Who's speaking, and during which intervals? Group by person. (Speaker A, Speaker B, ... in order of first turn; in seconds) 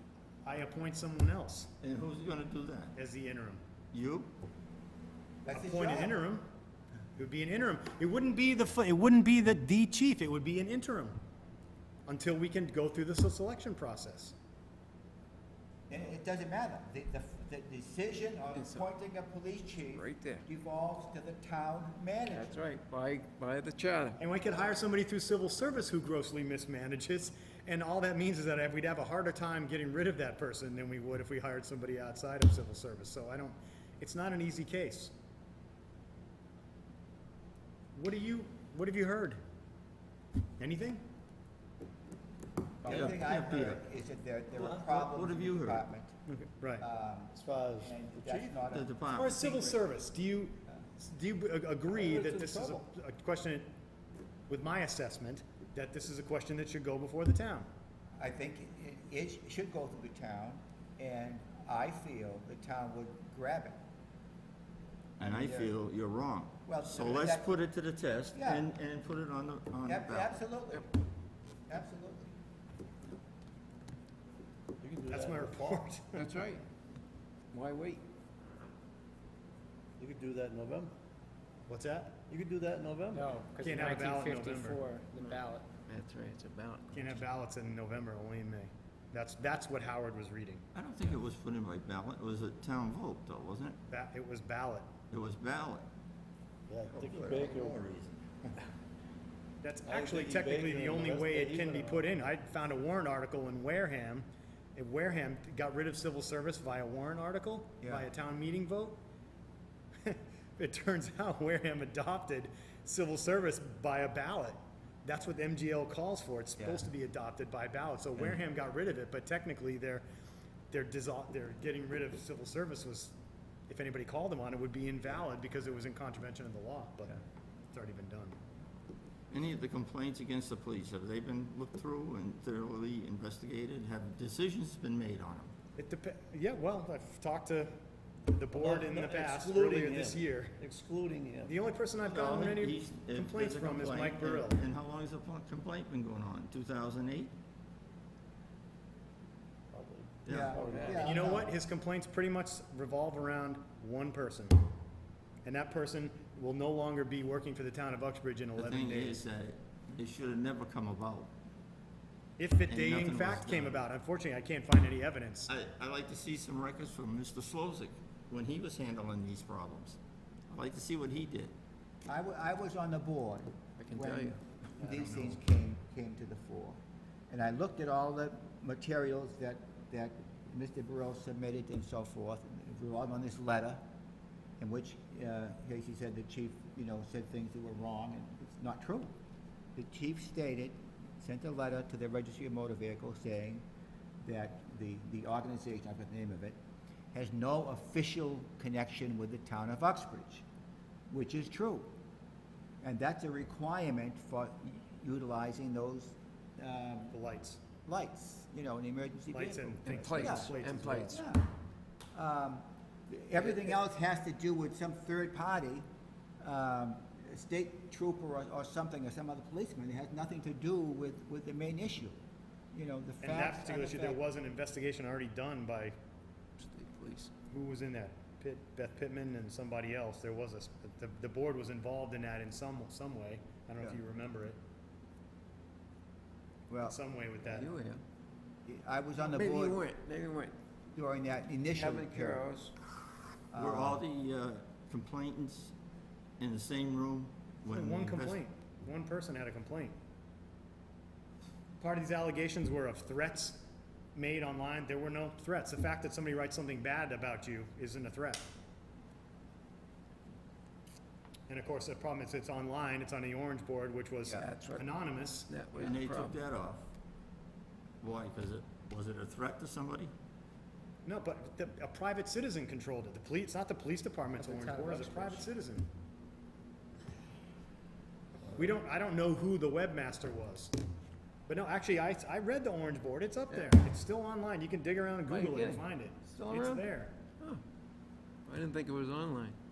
Speaker A: 0.4-1.7, 2.9-3.6, 5.5-6.4, 7.2-11.2, 12.1-14.3, 24.2-35.1, 38.0-39.4, 40.6-41.0, 46.3-46.9, 49.1-53.7, 54.5-57.7, 75.1-76.3, 81.7-82.2, 83.6-84.8, 86.9-90.6, 93.9-94.9, 99.6-109.0, 110.0-120.0, 120.7-123.1, 123.7-127.2, 127.7-128.4, 135.8-137.7, 138.3-140.6, 141.4-144.6, 151.0-154.6, 155.4-159.2, 162.4-165.5, 207.1-207.6, 209.3-211.2, 223.2-225.9, 227.5-234.6, 236.8-237.7, 247.7-249.9, 251.8-253.6, 254.1-258.5, 261.5-265.5, 271.0-275.9, 278.5-280.7, 281.5-287.1
Speaker B: 1.8-2.9, 3.9-4.3, 42.9-43.8, 45.0-45.8, 48.7-49.4, 65.2-70.3, 90.7-93.8, 95.1-95.9, 96.9-98.2, 129.3-135.5, 142.0-147.3, 150.2-150.6, 158.6-161.3, 162.7-163.8, 165.5-170.0, 170.5-171.5, 243.5-245.7, 246.4-248.4, 265.8-266.9, 268.0-270.1
Speaker C: 5.4-6.2, 15.9-22.6, 42.8-46.1, 46.8-49.8, 58.2-63.8, 65.2-65.8, 66.7-67.6, 68.3-68.7, 69.8-70.9, 71.7-72.3, 107.8-108.1, 116.6-116.8, 150.3-151.5, 172.1-183.8, 184.6-189.1, 189.7-193.7, 194.2-196.6, 197.1-200.4, 201.1-201.9, 202.8-207.2, 207.8-211.5, 212.1-215.8, 216.4-222.2, 222.7-224.2, 236.7-237.0, 238.7-239.8, 240.9-242.5, 243.5-244.0
Speaker D: 18.5-18.9, 19.9-20.4, 22.3-24.2, 76.1-76.6, 77.5-78.0, 85.9-87.2, 150.7-151.1, 173.8-174.4, 209.8-211.2, 226.6-227.3, 237.4-238.0, 239.2-240.6, 241.7-242.7, 264.3-264.9, 265.5-266.4, 285.3-286.9, 288.4-289.6
Speaker E: 44.5-45.1, 47.3-48.6, 51.9-52.8, 74.8-75.8, 80.0-80.9, 82.3-83.3, 96.7-97.8, 99.8-102.2, 138.5-141.6, 149.7-151.3
Speaker F: 83.1-85.7, 274.6-275.3